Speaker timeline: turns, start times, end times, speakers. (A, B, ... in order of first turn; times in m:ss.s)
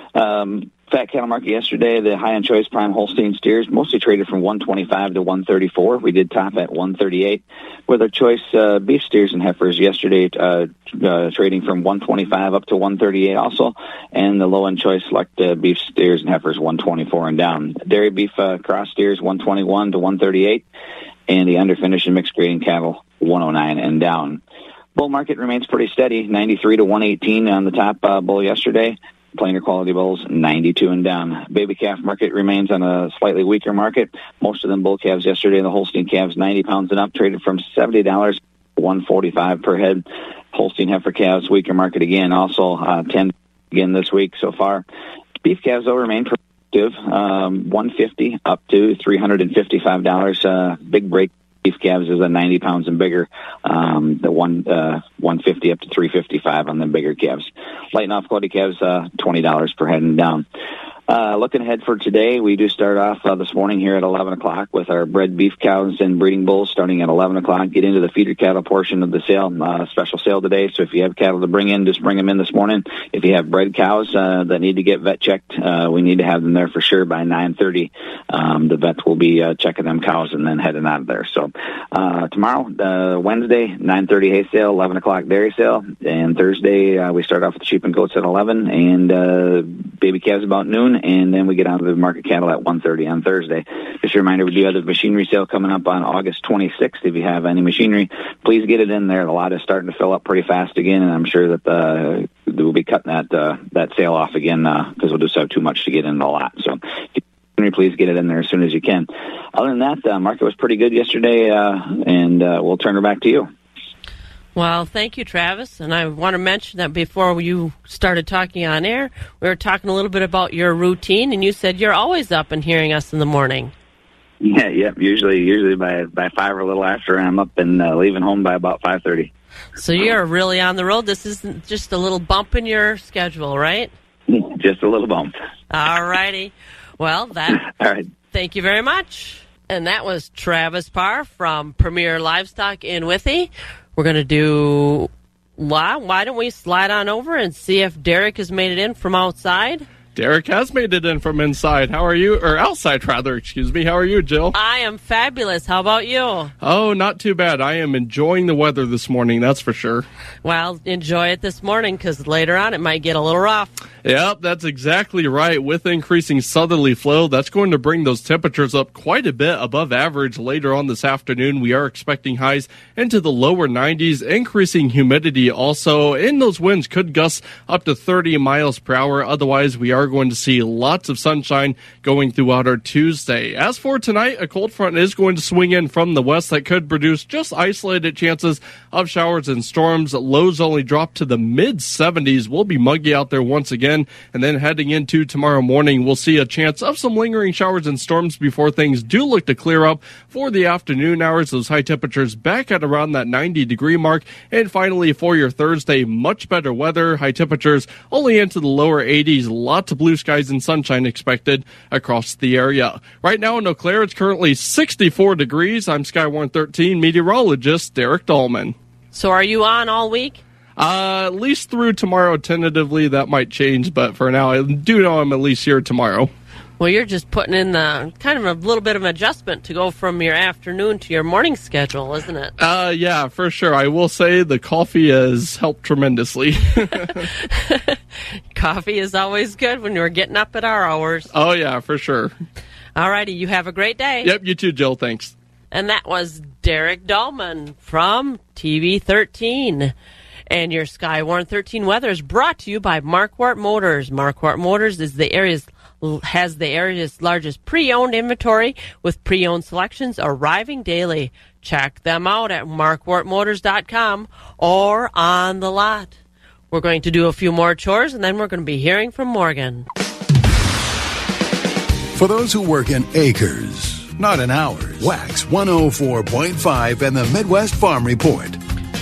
0:00.2-0:20.6 A
0:21.3-0:24.4 A
0:25.0-0:44.8 A
0:45.4-1:00.4 A
1:01.1-1:53.5 A
1:54.6-2:03.7 B
2:04.4-2:09.3 A
2:09.8-2:13.9 B
2:14.3-2:15.3 A
2:15.7-2:17.7 B
2:17.6-2:18.1 A
2:18.3-2:29.9 B
2:30.2-2:34.5 C
2:34.5-2:36.5 B
2:36.6-2:40.1 C
2:40.4-2:43.8 B
2:44.0-3:38.8 C
3:39.1-3:40.4 B
3:40.8-3:46.3 C
3:46.8-3:52.5 B
3:52.6-3:57.2 C
3:57.6-3:58.0 B
3:58.5-4:01.3 B
4:01.3-4:02.3 C
4:03.0-4:04.3 B
4:04.2-4:05.3 C
4:05.7-4:09.9 B
4:10.5-4:26.2 B
4:26.7-4:29.9 B
4:32.1-4:38.6 D